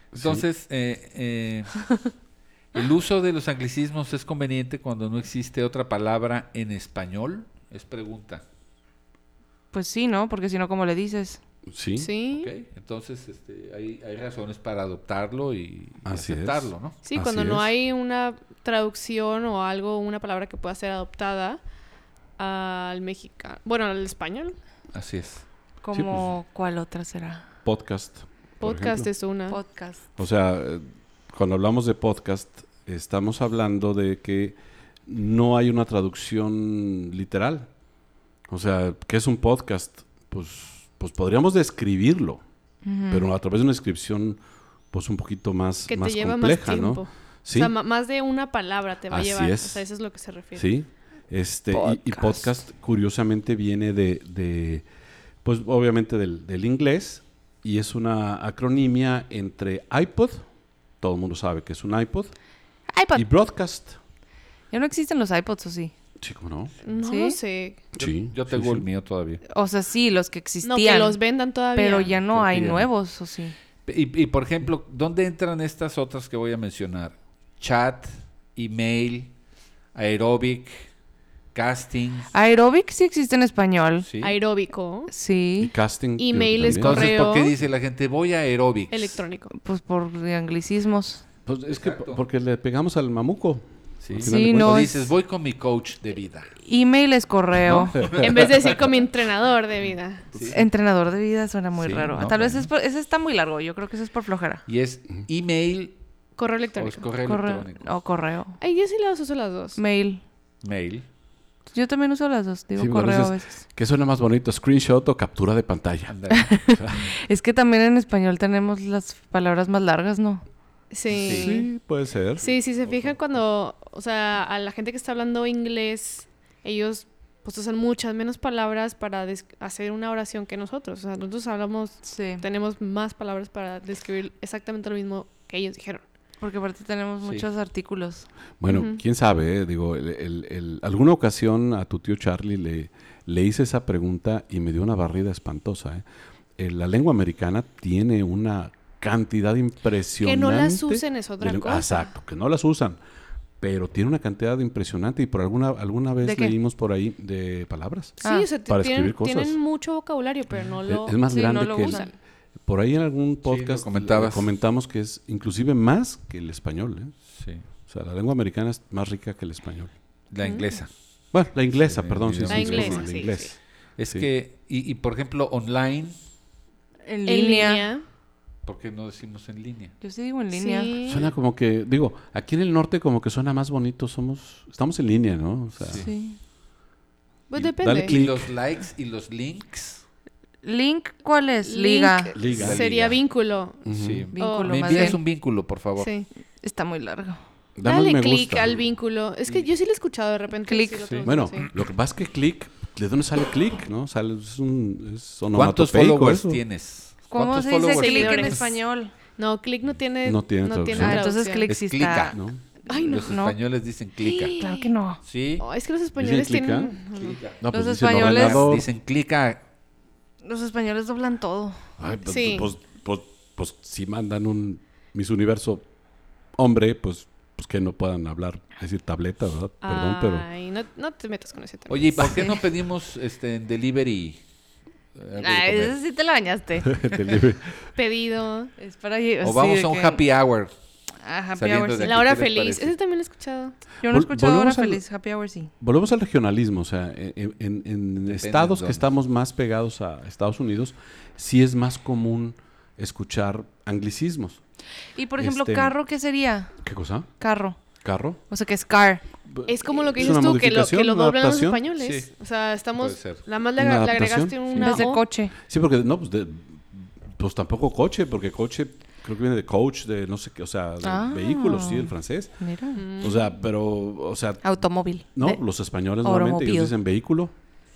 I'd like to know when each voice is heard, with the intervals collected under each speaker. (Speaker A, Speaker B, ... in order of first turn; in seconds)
Speaker A: 0.1-0.4, 11.7-12.1, 16.0-17.7, 25.9-26.3, 27.6-29.1, 30.2-37.7, 38.5-42.4, 43.1-44.4, 44.9-47.7, 49.1-49.8, 50.5-54.8, 55.4-60.4, 61.0-62.3, 63.1-64.0, 66.2-66.7, 67.9-68.8, 85.6-87.2, 91.5-95.1, 97.8-98.2, 112.8-116.2, 116.7-117.1, 121.2-122.5, 138.6-146.0, 146.6-153.0, 153.6-159.6, 160.9-162.1, 162.6-167.1, 167.9-169.9, 171.3-173.6, 181.1-186.0, 187.5-188.5, 192.3-193.2, 193.8-194.3, 197.8-198.8, 201.2-206.6, 210.2-211.2, 212.3-212.6, 216.2-217.0, 217.6-218.9, 222.0-225.9, 226.6-230.5, 236.9-237.9, 244.0-245.0, 245.8-254.6, 255.4-255.9, 256.8-257.3, 258.0-258.4, 259.4-261.8, 263.8-265.0, 265.6-272.5, 273.2-274.6, 275.3-277.5
Speaker B: 0.1-1.8, 2.7-8.4, 12.3-17.0, 24.9-25.4, 68.0-69.4, 72.1-72.9, 73.8-79.3, 79.9-80.9, 81.5-82.3, 84.0-84.4, 86.6-89.2, 91.7-92.2, 94.0-96.5, 97.7-98.8, 100.3-100.6, 101.8-102.7, 104.7-105.9, 106.8-107.9, 110.6-111.0, 116.1-116.5, 121.1-121.6, 122.8-123.2, 163.4-164.5, 167.3-167.6, 170.3-170.9, 171.8-173.2, 174.0-176.2, 178.7-179.9, 185.8-186.1, 187.9-190.0, 192.5-192.9, 193.9-196.1, 201.0-201.3, 205.5-208.6, 211.7-212.4, 212.9-214.6, 215.2-215.6, 217.1-219.6, 231.9-234.4, 235.1-236.0, 239.4-240.7, 241.6-242.9, 248.2-249.1, 262.0-262.3, 262.9-263.4, 264.7-265.0
Speaker C: 9.7-11.4, 25.8-27.4, 29.5-30.0, 42.8-43.3, 51.7-52.5, 62.9-63.2, 64.7-65.9, 67.0-67.4, 69.5-71.2, 71.7-73.5, 82.3-84.1, 85.1-85.7, 89.5-91.2, 94.2-94.9, 96.6-98.0, 100.5-104.6, 107.2-108.6, 109.8-110.2, 111.7-113.6, 116.3-120.4, 132.0-132.4, 136.4-138.3, 156.2-156.5, 158.2-158.5, 161.3-162.1, 177.1-177.9, 180.0-180.9, 185.9-186.4, 190.6-192.3, 194.3-195.2, 196.6-197.4, 200.6-201.2, 207.3-209.1, 210.9-212.4, 213.1-213.6, 214.3-215.2, 217.7-218.7, 220.4-221.8, 235.4-237.0, 238.8-240.2, 241.2-242.2, 244.0-245.7, 255.1-256.7, 257.4-257.8, 258.5-259.2, 264.8-265.5, 271.0-273.0, 274.6-275.6, 276.2-276.9
Speaker D: 12.0-12.5, 17.0-21.6, 22.4-24.6, 28.6-29.6, 45.9-50.7, 66.8-67.8, 70.6-72.1, 84.2-85.1, 86.2-87.5, 88.9-89.5, 98.2-100.3, 106.4-107.0, 108.6-109.8, 120.9-121.7, 122.4-136.0, 138.7-139.0, 150.2-152.1, 158.2-162.1, 172.5-173.5, 177.2-178.0, 180.5-181.3, 187.5-188.2, 191.6-193.8, 194.4-195.2, 196.0-196.3, 197.8-201.7, 207.9-211.7, 212.9-213.3, 214.2-214.9, 215.6-217.4, 222.2-222.7, 229.8-232.5, 237.9-238.7, 242.0-243.8, 259.7-265.2, 272.9-273.5